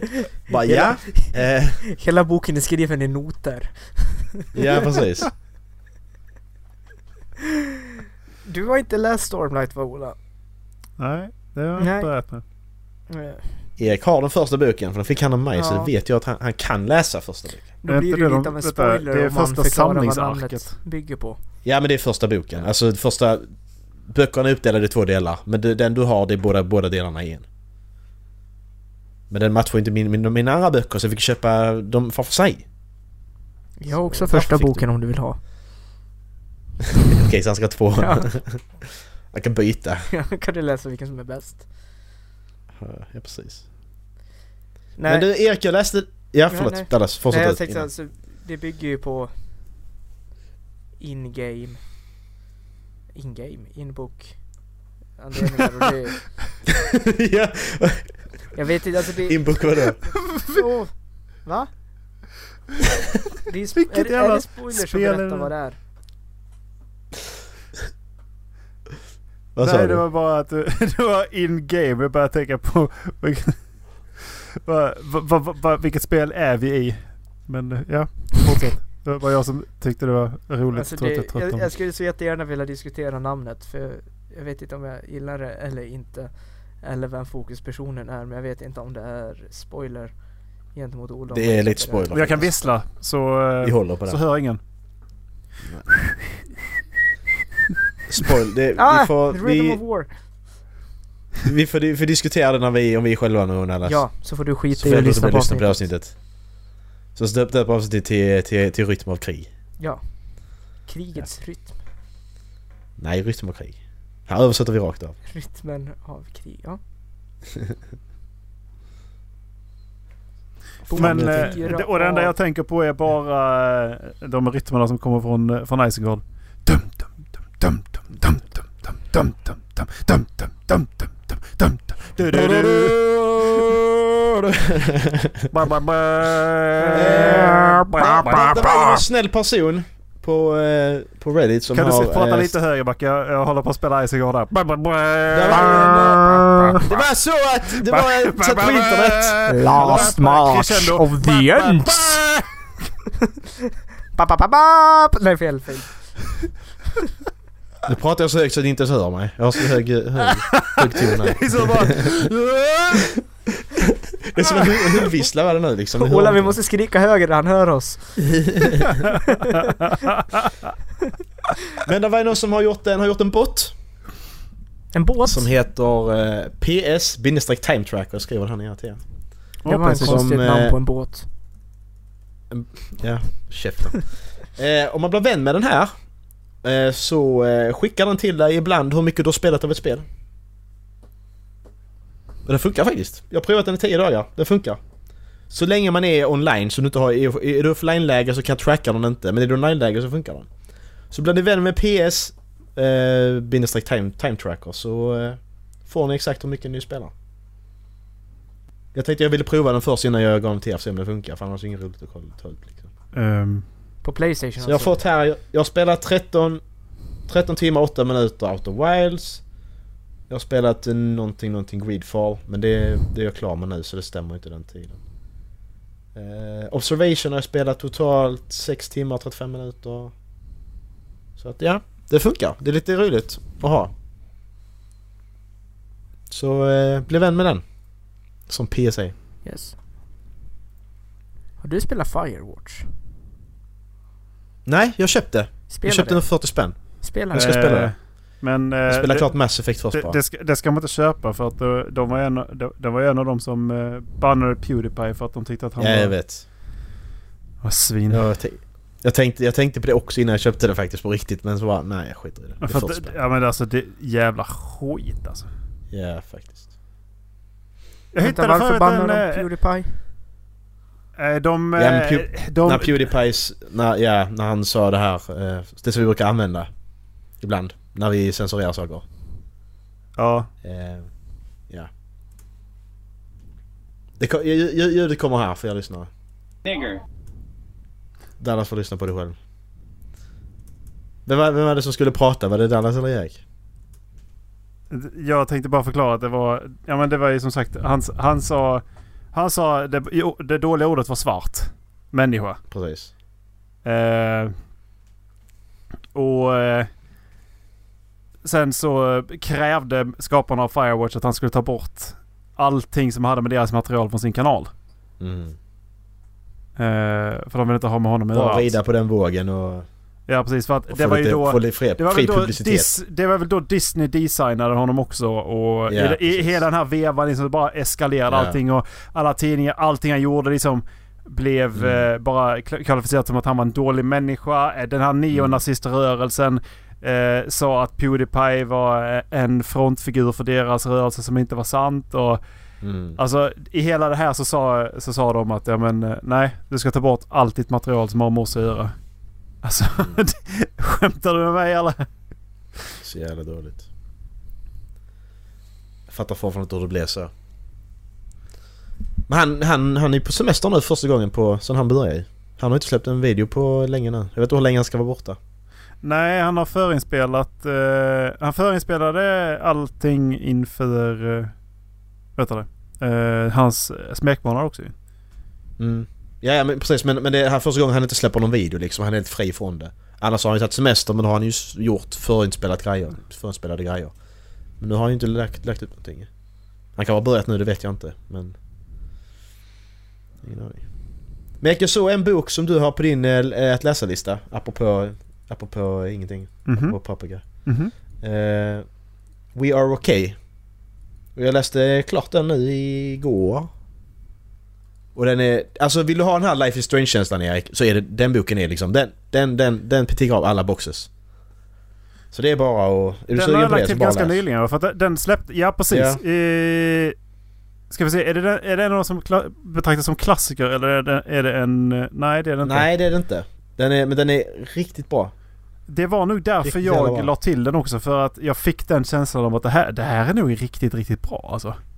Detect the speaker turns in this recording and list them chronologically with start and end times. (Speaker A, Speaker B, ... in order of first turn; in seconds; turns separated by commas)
Speaker A: 0.5-1.8, Speaker B: 0.7-4.5, Speaker A: 4.5-5.3, Speaker B: 8.4-10.2, Speaker C: 11.0-12.4, Speaker B: 11.8-12.3, Speaker B: 13.1-13.7, Speaker A: 13.8-17.7, Speaker B: 15.5-15.9, Speaker B: 17.8-21.4, Speaker C: 17.9-20.7, Speaker A: 21.6-27.5, Speaker A: 29.3-32.7, Speaker B: 33.8-35.4, Speaker A: 33.9-34.9, Speaker A: 37.1-40.1, Speaker B: 38.0-38.5, Speaker B: 40.1-41.7, Speaker A: 42.8-43.6, Speaker B: 45.0-45.3, Speaker A: 45.0-47.9, Speaker B: 46.5-49.3, Speaker B: 51.0-51.9, Speaker B: 53.1-56.5, Speaker A: 57.2-58.5, Speaker B: 58.5-61.7, Speaker A: 59.3-60.2, Speaker B: 63.4-65.8, Speaker C: 63.8-65.5, Speaker A: 69.5-70.0, Speaker C: 69.6-81.7, Speaker B: 80.7-92.4, Speaker A: 91.3-94.2, Speaker C: 92.1-95.1, Speaker A: 98.1-99.8, Speaker B: 98.8-100.1, Speaker A: 101.5-104.1, Speaker B: 103.9-105.9, Speaker A: 104.7-106.4, Speaker A: 107.2-109.5, Speaker B: 109.8-111.8, Speaker A: 113.0-115.2, Speaker B: 115.2-116.8, Speaker B: 120.9-122.3, Speaker A: 120.9-121.6, Speaker C: 121.0-133.0, Speaker A: 132.3-133.9, Speaker A: 134.5-135.4, Speaker C: 135.5-139.0, Speaker A: 136.9-142.6, Speaker C: 141.7-147.1, Speaker A: 145.3-146.2, Speaker B: 145.6-146.8, Speaker A: 146.8-150.0, Speaker C: 147.6-152.7, Speaker B: 149.5-152.2, Speaker B: 154.2-156.5, Speaker A: 157.9-161.9, Speaker C: 160.7-163.0, Speaker A: 164.3-166.6, Speaker B: 165.9-169.4, Speaker A: 171.8-173.7, Speaker B: 174.9-175.5, Speaker A: 175.2-180.8, Speaker B: 179.6-181.3, Speaker C: 179.6-180.2, Speaker A: 182.5-190.1, Speaker A: 192.5-194.8, Speaker A: 195.5-207.1, Speaker A: 208.9-212.9, Speaker C: 213.1-213.7, Speaker B: 214.0-215.0, Speaker A: 214.6-219.5, Speaker A: 220.3-225.0, Speaker A: 226.1-230.1, Speaker A: 231.4-233.9, Speaker A: 236.3-237.8, Speaker A: 238.5-239.1, Speaker B: 239.4-239.8, Speaker B: 241.6-242.9, Speaker A: 244.7-248.3, Speaker B: 245.7-247.6, Speaker C: 247.3-256.2, Speaker A: 248.9-250.2, Speaker A: 255.8-256.4, Speaker C: 257.6-258.3, Speaker A: 258.1-263.2, Speaker C: 262.6-265.5, Speaker A: 265.9-266.7, Speaker C: 268.1-269.5, Speaker B: 268.2-270.0, Speaker C: 271.2-273.1, Speaker A: 271.8-279.1, Speaker C: 280.2-280.5, Speaker A: 280.6-281.1, Speaker A: 284.2-286.1, Speaker A: 288.4-289.4, Speaker A: 291.3-293.4, Speaker C: 294.9-302.6, Speaker A: 302.7-303.1, Speaker C: 303.8-304.5, Speaker C: 306.1-306.9, Speaker C: 308.4-314.7, Speaker A: 315.2-315.6, Speaker C: 316.8-318.8, Speaker A: 318.3-319.9, Speaker C: 320.3-342.4, Speaker A: 320.9-322.9, Speaker A: 325.9-326.6, Speaker A: 328.3-328.6, Speaker A: 331.8-332.1, Speaker A: 335.3-335.6, Speaker A: 342.8-343.2, Speaker C: 343.2-352.2, Speaker A: 353.0-353.9, Speaker A: 356.1-357.3, Speaker A: 359.3-365.4, Speaker C: 366.0-371.7, Speaker C: 372.3-374.9, Speaker A: 375.8-384.2, Speaker A: 384.8-386.3, Speaker A: 386.9-388.6, Speaker A: 390.4-399.0, Speaker C: 396.7-397.9, Speaker A: 399.5-400.5, Speaker A: 401.4-403.7, Speaker A: 405.1-411.1, Speaker A: 412.3-414.4, Speaker C: 413.3-417.2, Speaker A: 415.9-416.2, Speaker C: 417.9-422.9, Speaker A: 422.6-425.3, Speaker C: 425.9-431.8, Speaker A: 426.6-427.3